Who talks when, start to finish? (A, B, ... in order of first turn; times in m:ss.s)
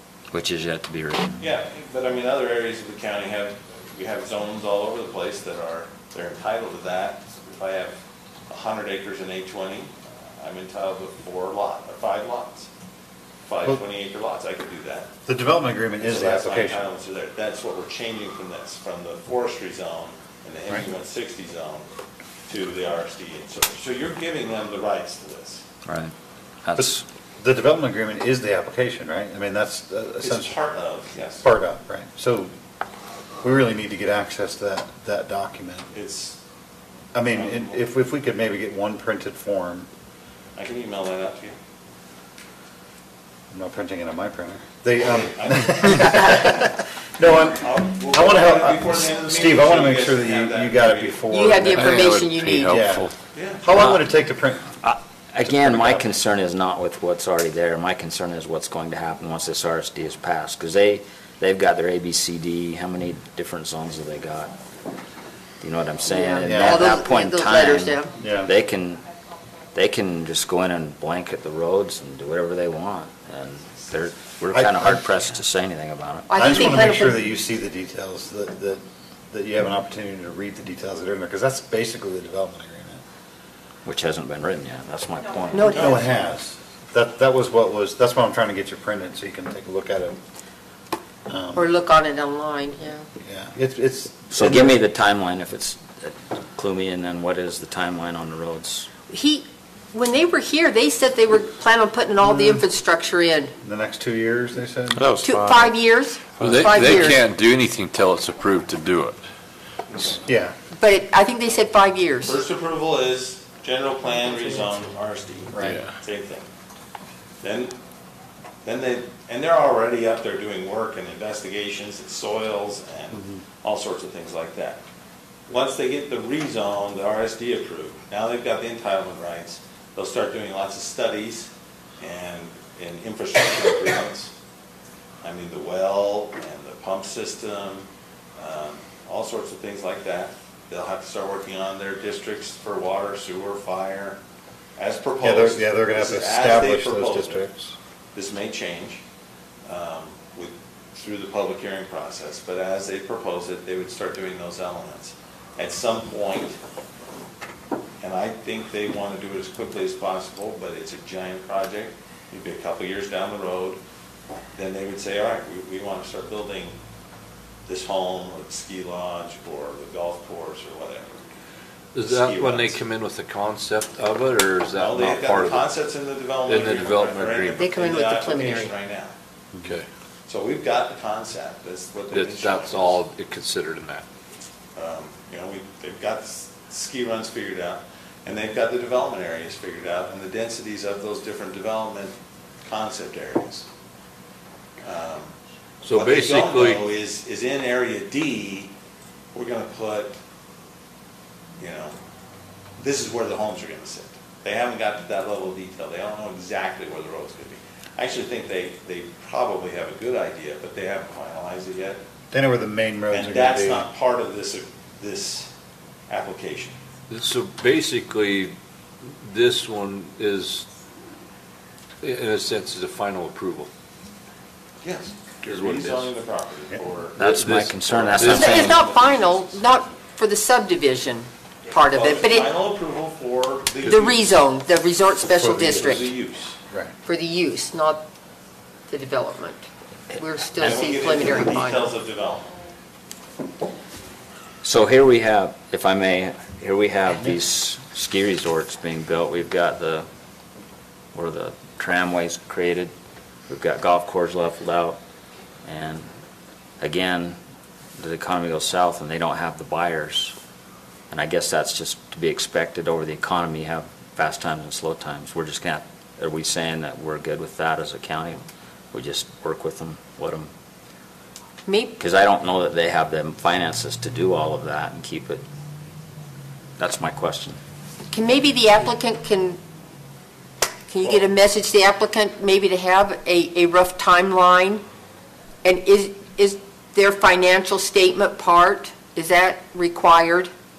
0:00.3-0:01.3 A
0:01.4-0:08.0 B
0:08.5-0:12.7 B
0:13.4-0:15.1 B
0:15.2-0:16.8 C
0:16.0-0:21.9 B
0:22.5-0:25.6 B
0:25.8-0:27.0 A
0:26.8-0:30.6 C
0:30.2-0:31.5 B
0:31.4-0:32.5 C
0:33.4-0:35.9 C
0:35.9-0:36.4 B
0:37.1-0:39.9 C
0:37.3-0:37.8 B
0:40.6-0:41.6 B
0:43.5-0:52.0 C
0:45.0-0:46.6 B
0:47.3-0:51.2 B
0:51.3-0:52.8 D
0:51.7-0:53.1 E
0:52.6-0:54.7 C
0:53.3-0:53.6 B
0:53.7-0:54.0 A
0:54.8-1:04.5 A
0:55.4-0:56.1 C
1:05.6-1:09.0 A
1:06.1-1:08.1 D
1:06.4-1:06.9 C
1:08.2-1:08.5 C
1:09.7-1:16.4 A
1:14.5-1:15.3 C
1:16.3-1:17.3 D
1:16.3-1:23.0 C
1:23.8-1:25.7 A
1:25.5-1:26.1 D
1:25.7-1:30.2 C
1:25.7-1:26.1 B
1:31.3-1:31.7 C
1:31.5-1:33.1 D
1:33.2-1:34.8 C
1:34.3-1:38.9 A
1:39.1-1:43.5 D
1:42.3-1:42.5 C
1:43.6-1:45.1 C
1:44.9-1:47.2 E
1:45.2-1:47.2 D
1:46.4-1:49.2 F
1:48.6-1:49.1 E
1:50.2-1:50.5 C
1:50.8-1:52.4 D
1:52.2-1:56.5 B
1:55.5-1:55.8 C
1:55.6-1:55.9 E
1:57.4-1:57.7 B
1:58.6-2:04.8 B
2:05.5-2:14.3 B
2:15.2-2:24.2 B
2:24.8-2:27.4 B
2:25.2-2:27.7 C
2:28.1-2:29.0 B
2:29.6-2:36.6 B
2:38.0-2:43.8 B
2:44.5-2:46.8 B
2:47.7-2:51.2 B
2:51.9-2:55.7 F
2:52.0-2:52.8 B
2:54.8-2:59.1 B
2:56.4-2:57.6 F
2:57.6-2:58.7 D
2:59.6-2:59.9 F
3:00.3-3:03.0 B
3:02.1-3:04.0 F
3:04.8-3:13.7 B
3:14.8-3:15.3 B
3:15.8-3:16.8 F
3:15.9-3:18.7 B
3:19.3-3:20.2 B
3:21.6-3:22.0 B
3:22.8-3:32.0 B
3:32.3-3:33.9 C
3:33.1-3:35.5 B
3:36.1-3:36.8 B
3:37.1-3:38.6 F
3:39.2-3:40.6 F
3:42.0-3:43.7 F
3:44.8-3:47.3 B
3:45.4-3:46.1 F
3:47.2-3:48.8 A
3:47.2-3:48.7 F
3:47.9-3:49.9 B
3:48.2-3:52.5 D
3:51.8-3:54.3 B
3:53.8-3:56.1 D
3:55.3-3:56.1 C
3:55.5-3:56.6 B
3:57.0-3:58.0 D
3:58.9-4:01.9 D
4:00.6-4:02.5 B
4:04.6-4:10.1 A
4:11.1-4:12.9 A
4:13.5-4:15.0 A
4:15.6-4:16.1 A
4:16.8-4:17.4 A
4:18.0-4:20.3 A
4:21.1-4:30.5 A
4:31.6-4:32.0 D
4:32.0-4:35.4 A
4:36.8-4:37.6 A
4:38.1-4:39.6 D
4:40.9-4:44.8 D
4:45.6-4:50.5 D